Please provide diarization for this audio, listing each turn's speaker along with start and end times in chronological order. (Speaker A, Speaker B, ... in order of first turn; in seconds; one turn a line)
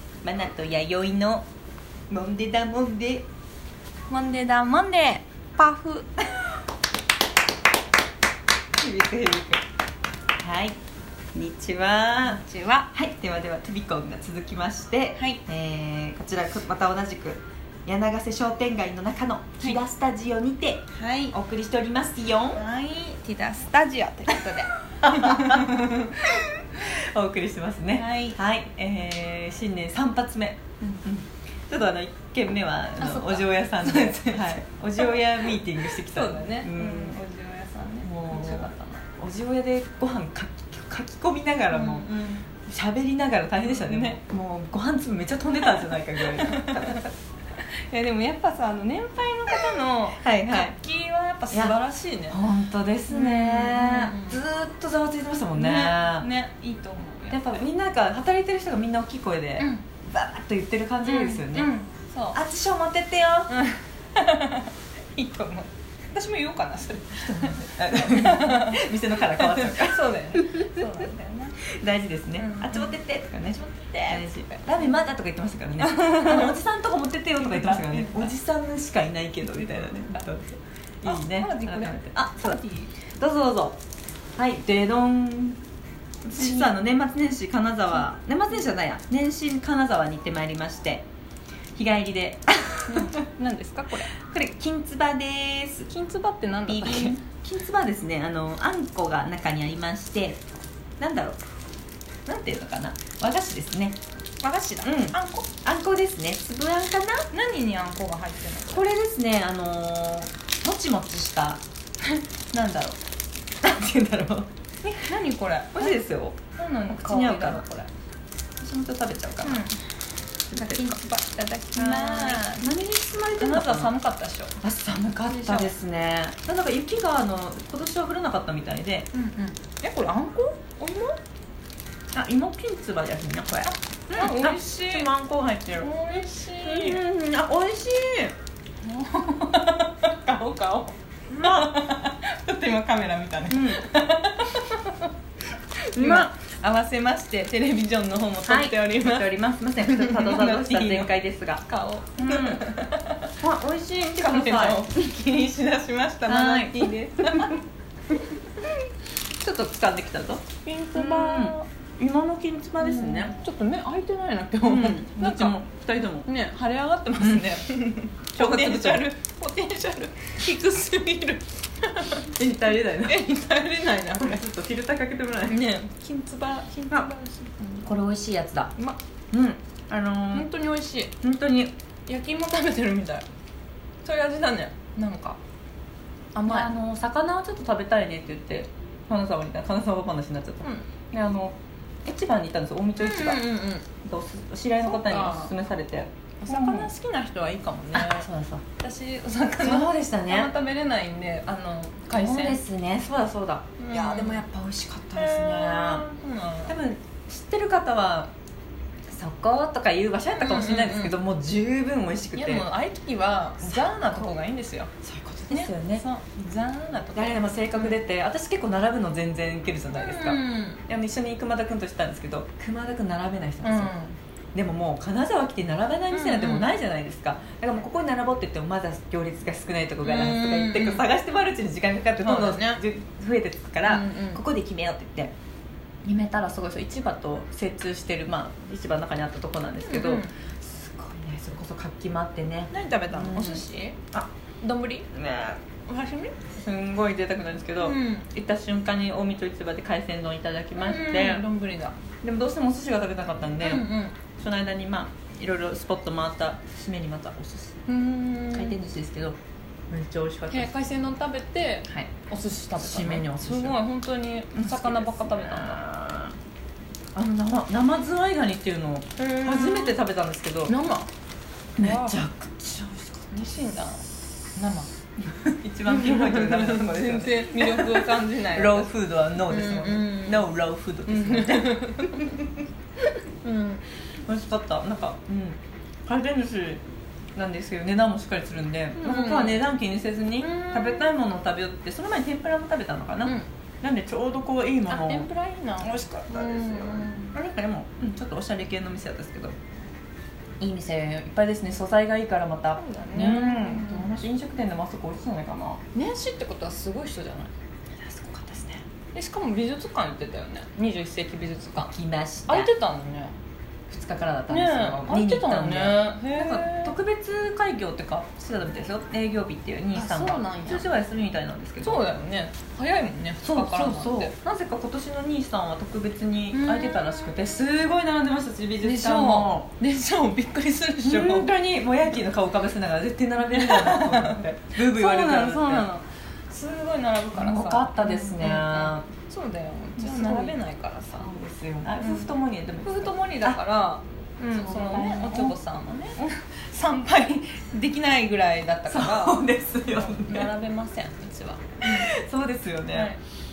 Speaker A: 0.2-1.5
Speaker A: 2.1-3.3
Speaker B: 4.1-6.1
Speaker A: 8.8-9.6
Speaker A: 10.4-10.8
Speaker A: 11.3-22.6
Speaker B: 12.2-12.9
Speaker B: 15.2-15.4
Speaker B: 20.9-21.4
Speaker B: 22.5-26.6
Speaker A: 25.0-37.2
Speaker B: 27.9-28.4
Speaker B: 33.0-39.1
Speaker A: 38.0-47.1
Speaker B: 41.7-42.5
Speaker B: 43.6-44.2
Speaker B: 45.5-52.4
Speaker A: 50.1-50.8
Speaker A: 52.3-56.3
Speaker B: 53.1-54.4
Speaker B: 55.6-57.7
Speaker A: 57.3-61.7
Speaker B: 61.0-62.4
Speaker A: 62.3-63.5
Speaker B: 63.5-71.7
Speaker A: 67.1-70.9
Speaker A: 71.6-83.8
Speaker B: 72.4-75.0
Speaker B: 75.8-76.6
Speaker B: 77.4-78.4
Speaker B: 79.5-80.3
Speaker B: 81.0-83.0
Speaker A: 84.4-85.6
Speaker A: 86.2-91.0
Speaker B: 86.3-86.7
Speaker A: 91.8-93.2
Speaker B: 92.9-94.1
Speaker A: 94.2-95.9
Speaker B: 95.9-97.2
Speaker A: 96.7-100.4
Speaker A: 101.0-101.4
Speaker A: 102.3-104.0
Speaker B: 104.4-105.5
Speaker A: 104.8-107.3
Speaker B: 107.3-108.8
Speaker A: 108.7-111.6
Speaker A: 112.5-113.0
Speaker A: 113.6-114.5
Speaker B: 114.8-116.0
Speaker A: 115.7-116.4
Speaker B: 116.6-117.9
Speaker A: 116.9-117.7
Speaker A: 118.6-119.6
Speaker B: 119.4-119.8
Speaker A: 120.5-121.0
Speaker B: 120.5-122.7
Speaker A: 121.7-123.9
Speaker B: 123.4-124.5
Speaker A: 124.6-129.1
Speaker B: 125.2-125.7
Speaker B: 129.1-131.2
Speaker A: 132.1-138.3
Speaker B: 133.7-135.1
Speaker B: 135.8-137.0
Speaker B: 138.8-145.1
Speaker A: 141.4-141.7
Speaker A: 143.5-143.8
Speaker B: 145.9-151.1
Speaker A: 145.9-146.3
Speaker A: 148.5-151.6
Speaker B: 151.7-153.3
Speaker A: 152.2-152.6
Speaker A: 153.4-154.9
Speaker B: 154.0-157.6
Speaker A: 156.2-157.6
Speaker B: 158.1-158.7
Speaker A: 159.4-163.3
Speaker B: 160.6-161.7
Speaker B: 162.8-174.4
Speaker A: 164.6-166.3
Speaker A: 167.2-167.5
Speaker A: 168.3-169.1
Speaker A: 172.3-173.2
Speaker A: 174.2-175.6
Speaker B: 175.5-177.9
Speaker A: 177.8-178.7
Speaker A: 179.3-180.5
Speaker B: 180.3-181.1
Speaker A: 181.2-181.7
Speaker B: 182.1-183.3
Speaker B: 184.0-185.4
Speaker B: 186.3-186.7
Speaker A: 186.5-193.4
Speaker B: 190.6-190.9
Speaker B: 193.0-193.9
Speaker A: 194.0-196.9
Speaker B: 194.8-195.5
Speaker B: 196.4-198.3
Speaker A: 197.9-198.6
Speaker B: 198.8-202.6
Speaker A: 199.6-200.5
Speaker A: 202.1-206.1
Speaker B: 203.8-204.4
Speaker B: 205.2-206.8
Speaker A: 206.7-208.3
Speaker A: 209.1-212.7
Speaker B: 210.3-211.2
Speaker B: 212.3-214.9
Speaker A: 213.6-214.3
Speaker A: 215.0-216.1
Speaker B: 215.5-218.0
Speaker A: 217.2-223.9
Speaker B: 219.9-220.8
Speaker B: 223.6-224.2
Speaker A: 224.5-235.3
Speaker B: 226.1-226.7
Speaker B: 230.0-231.1
Speaker B: 232.2-232.8
Speaker B: 233.9-234.4
Speaker A: 236.1-244.3
Speaker B: 239.8-240.3
Speaker B: 242.7-244.0
Speaker B: 244.6-245.1
Speaker A: 245.1-245.6
Speaker B: 245.8-246.4
Speaker A: 246.5-251.4
Speaker B: 247.8-248.3
Speaker B: 250.8-252.0
Speaker A: 252.2-257.8
Speaker B: 253.6-254.2
Speaker B: 257.9-258.8
Speaker A: 258.5-259.4
Speaker A: 259.9-260.7
Speaker B: 260.5-265.8
Speaker A: 262.8-263.8
Speaker A: 264.5-266.4
Speaker A: 267.1-270.7
Speaker B: 269.2-270.0
Speaker B: 270.7-271.1
Speaker A: 271.8-273.6
Speaker B: 271.8-272.2
Speaker B: 273.3-274.9
Speaker A: 275.3-282.5
Speaker B: 275.9-278.9
Speaker B: 279.4-280.5
Speaker B: 281.1-282.4
Speaker B: 283.0-283.9
Speaker A: 284.3-286.8
Speaker A: 287.4-295.3
Speaker B: 289.0-289.7
Speaker B: 290.4-291.2
Speaker B: 294.9-297.3
Speaker A: 295.8-299.6
Speaker A: 300.6-305.8
Speaker B: 302.8-304.2
Speaker B: 305.9-307.5
Speaker A: 308.0-308.8
Speaker B: 309.1-311.9
Speaker A: 311.8-312.7
Speaker B: 312.5-313.3
Speaker A: 313.9-322.1
Speaker B: 314.5-317.0
Speaker B: 319.9-320.9
Speaker B: 321.8-324.3
Speaker A: 323.4-329.7
Speaker B: 326.5-327.5
Speaker B: 328.8-331.5
Speaker A: 331.0-335.9
Speaker B: 333.4-341.3
Speaker A: 337.3-339.1
Speaker A: 340.0-340.6
Speaker A: 341.1-343.6
Speaker B: 342.0-352.1
Speaker A: 344.4-345.6
Speaker A: 348.9-350.5
Speaker A: 351.8-353.1
Speaker B: 352.9-353.2